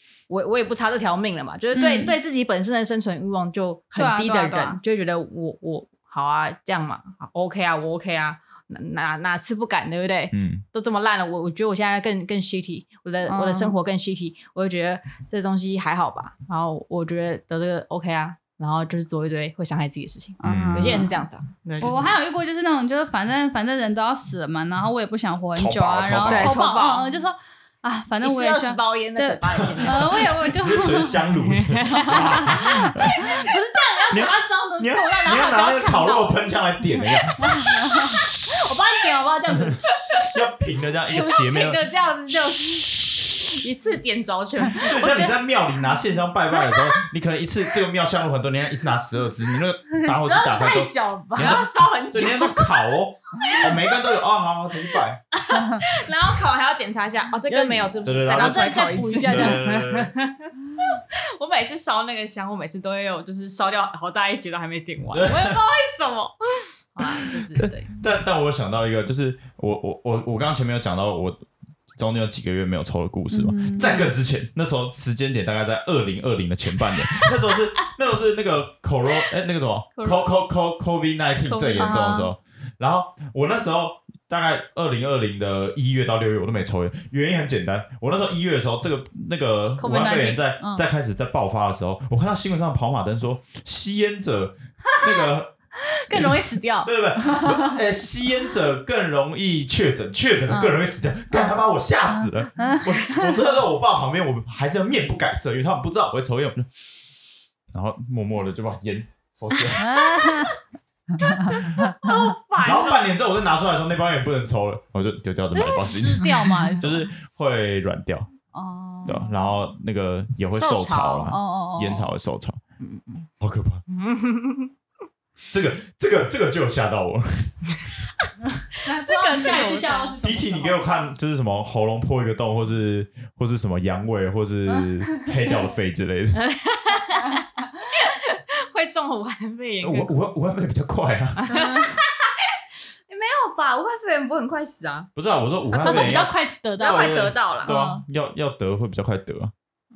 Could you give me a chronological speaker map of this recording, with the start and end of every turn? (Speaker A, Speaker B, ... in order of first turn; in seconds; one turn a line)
Speaker A: 0.3-22.1
Speaker B: 1.7-2.1
Speaker B: 4.0-4.8
Speaker C: 10.3-10.6
Speaker B: 13.3-13.8
Speaker B: 20.4-21.1
Speaker C: 20.4-21.1
Speaker B: 21.8-31.2
Speaker C: 25.5-26.6
Speaker A: 26.2-27.1
Speaker A: 28.2-30.3
Speaker C: 29.8-33.2
Speaker A: 31.5-33.5
Speaker B: 31.9-36.5
Speaker C: 34.1-37.6
Speaker B: 37.0-40.3
Speaker C: 39.6-43.6
Speaker A: 39.9-40.3
Speaker A: 41.1-42.9
Speaker A: 43.5-45.4
Speaker C: 44.8-55.2
Speaker B: 49.9-51.6
Speaker A: 51.4-52.8
Speaker A: 53.4-53.8
Speaker A: 55.3-66.3
Speaker B: 55.5-55.8
Speaker B: 57.5-59.6
Speaker C: 58.0-60.1
Speaker C: 65.1-65.5
Speaker A: 66.9-67.9
Speaker C: 67.6-71.4
Speaker C: 71.9-95.5
Speaker B: 73.3-74.1
Speaker A: 79.9-80.3
Speaker A: 81.4-82.2
Speaker B: 81.8-82.3
Speaker B: 89.8-90.8
Speaker B: 94.9-95.3
Speaker B: 96.0-97.8
Speaker C: 96.1-106.7
Speaker B: 100.5-100.8
Speaker B: 101.3-102.9
Speaker C: 107.7-110.2
Speaker B: 109.8-110.5
Speaker A: 109.8-110.6
Speaker B: 111.2-112.2
Speaker A: 111.2-113.0
Speaker C: 112.6-118.3
Speaker B: 115.5-117.1
Speaker A: 116.2-116.8
Speaker B: 118.5-119.4
Speaker C: 119.0-122.6
Speaker A: 120.5-121.3
Speaker B: 121.3-122.1
Speaker A: 122.8-123.3
Speaker C: 123.4-123.8
Speaker A: 123.9-124.7
Speaker C: 125.5-127.6
Speaker B: 128.7-131.0
Speaker A: 128.8-130.2
Speaker C: 130.2-136.4
Speaker B: 134.7-135.3
Speaker A: 136.3-140.1
Speaker C: 139.8-141.4
Speaker A: 141.4-142.5
Speaker B: 141.5-142.0
Speaker A: 143.1-145.1
Speaker C: 145.2-149.5
Speaker A: 145.7-147.8
Speaker B: 145.8-148.0